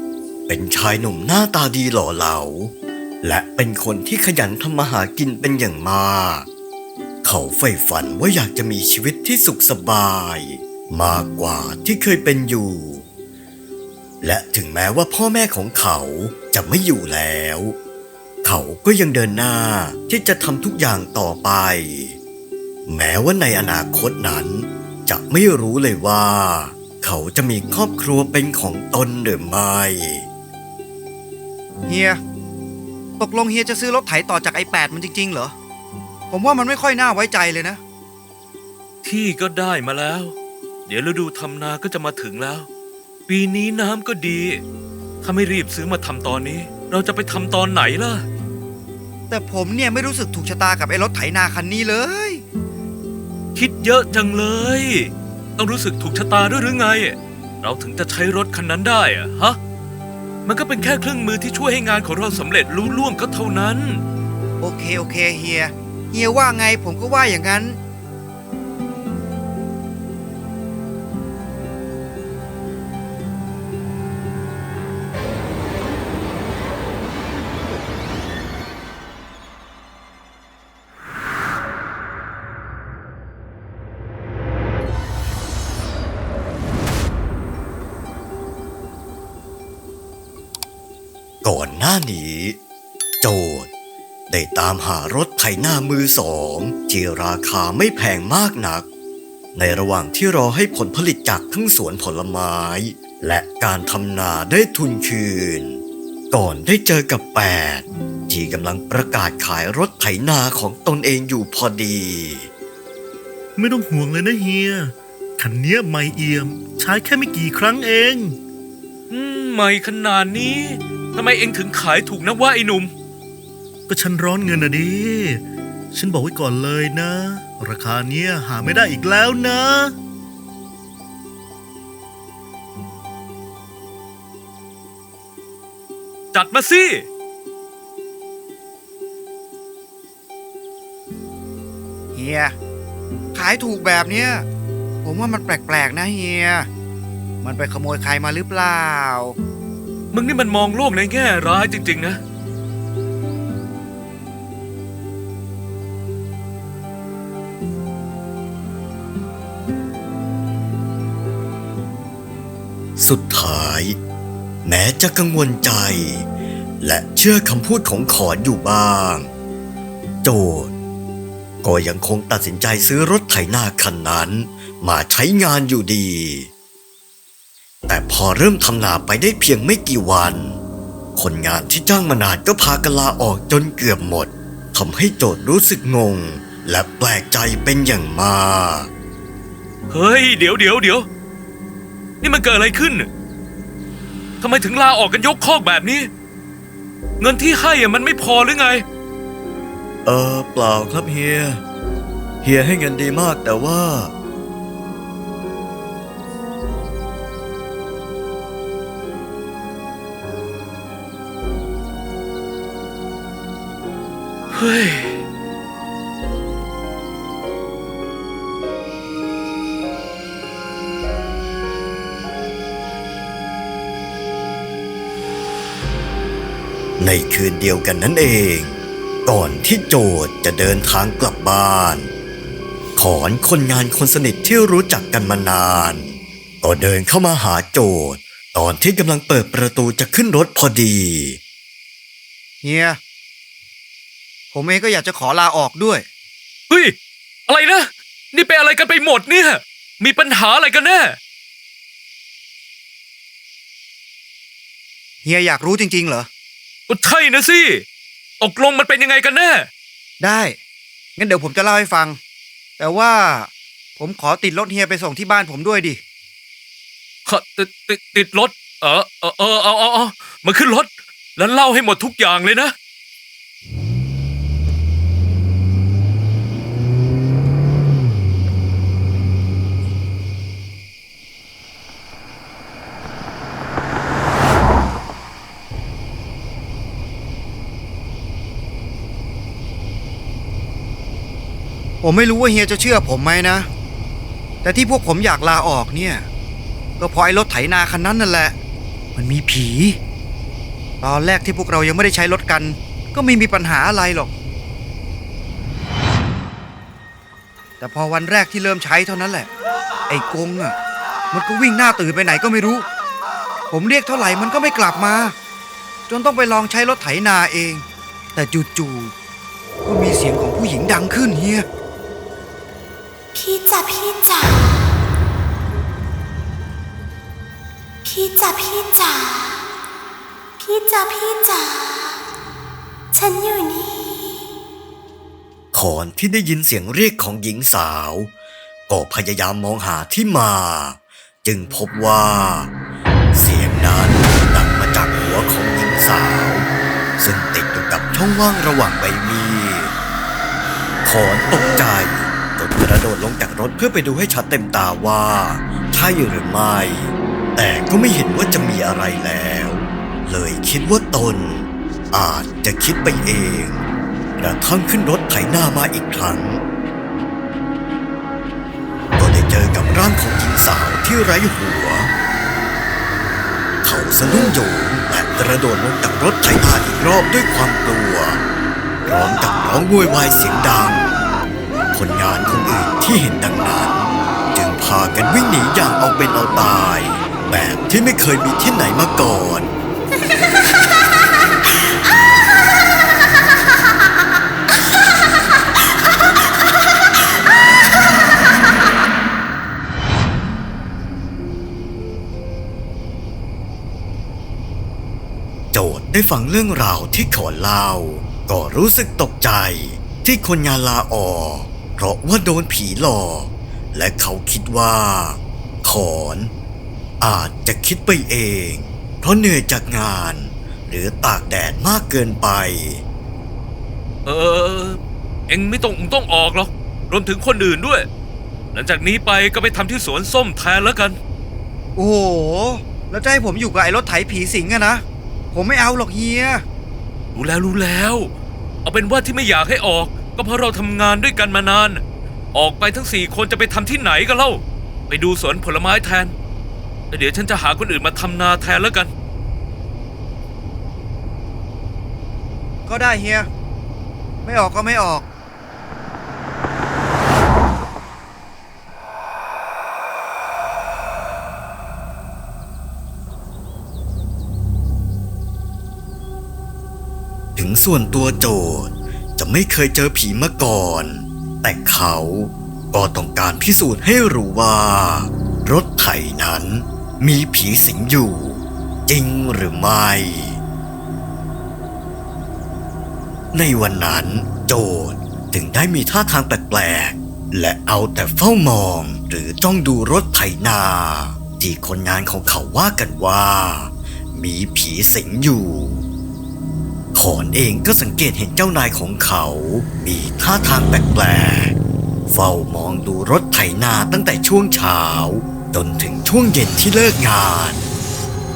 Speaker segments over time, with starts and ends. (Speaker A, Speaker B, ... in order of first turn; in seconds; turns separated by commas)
Speaker A: 0.5-6.5, Speaker A: 7.2-13.0, Speaker A: 14.2-17.8, Speaker A: 18.4-22.2, Speaker A: 22.9-30.2, Speaker B: 31.9-32.2, Speaker B: 33.2-35.5, Speaker B: 36.3-37.8, Speaker C: 39.0-40.3, Speaker C: 40.9-42.7, Speaker C: 43.3-44.6, Speaker C: 45.2-48.2, Speaker B: 49.3-52.4, Speaker C: 53.5-59.6, Speaker C: 60.5-64.0, Speaker B: 64.6-67.8, Speaker A: 91.4-92.6, Speaker A: 93.2-93.7, Speaker A: 94.3-98.8, Speaker A: 99.5-112.5, Speaker D: 113.5-118.4, Speaker C: 119.1-122.9, Speaker D: 123.9-129.9, Speaker C: 136.3-137.1, Speaker B: 142.1-142.5, Speaker B: 143.3-144.4, Speaker B: 145.0-146.7, Speaker B: 147.4-149.3, Speaker C: 150.1-152.2, Speaker A: 163.0-164.0, Speaker A: 164.6-166.2, Speaker A: 166.8-169.3, Speaker A: 170.2-170.7, Speaker A: 171.6-176.5, Speaker A: 177.9-180.6, Speaker A: 181.2-188.9, Speaker C: 189.9-191.1, Speaker C: 192.2-193.1, Speaker C: 194.4-196.1, Speaker C: 197.2-198.8, Speaker A: 200.1-201.6, Speaker A: 202.4-204.1, Speaker C: 214.5-215.2, Speaker A: 227.0-232.1, Speaker A: 232.9-241.4, Speaker B: 242.6-243.0, Speaker B: 244.5-246.0, Speaker C: 246.7-246.9, Speaker C: 247.5-251.2, Speaker B: 255.2-256.3, Speaker C: 256.9-257.8, Speaker C: 258.4-259.7, Speaker B: 260.2-260.6, Speaker B: 261.2-262.2, Speaker B: 262.8-266.0, Speaker C: 267.2-272.7, Speaker B: 292.0-293.7, Speaker B: 294.6-296.2, Speaker B: 297.0-298.5, Speaker B: 299.1-300.0, Speaker B: 301.0-304.3, Speaker B: 307.8-309.5, Speaker B: 310.1-310.7, Speaker B: 311.3-312.9, Speaker B: 313.7-315.3, Speaker B: 316.1-317.8, Speaker B: 318.3-319.1, Speaker B: 319.8-321.6, Speaker E: 323.3-324.9, Speaker E: 328.0-329.7, Speaker E: 330.6-332.2, Speaker E: 333.1-334.5, Speaker A: 335.7-338.3, Speaker A: 338.9-342.7, Speaker A: 343.3-346.7, Speaker A: 347.2-349.9, Speaker A: 351.0-363.8, Speaker A: 364.4-366.6, Speaker A: 369.2-372.1, Speaker A: 373.8-378.4, Speaker A: 379.1-381.1, Speaker A: 381.9-389.8, Speaker A: 405.7-416.5, Speaker A: 417.2-423.0, Speaker C: 424.2-428.1, Speaker C: 428.7-431.2, Speaker B: 431.9-436.6, Speaker C: 437.3-438.3, Speaker C: 438.8-442.0, Speaker C: 442.5-446.3, Speaker C: 447.1-449.1, Speaker B: 452.9-453.5, Speaker B: 454.4-455.2, Speaker A: 467.6-480.6, Speaker A: 483.5-496.0, Speaker A: 497.1-501.7, Speaker A: 502.3-507.9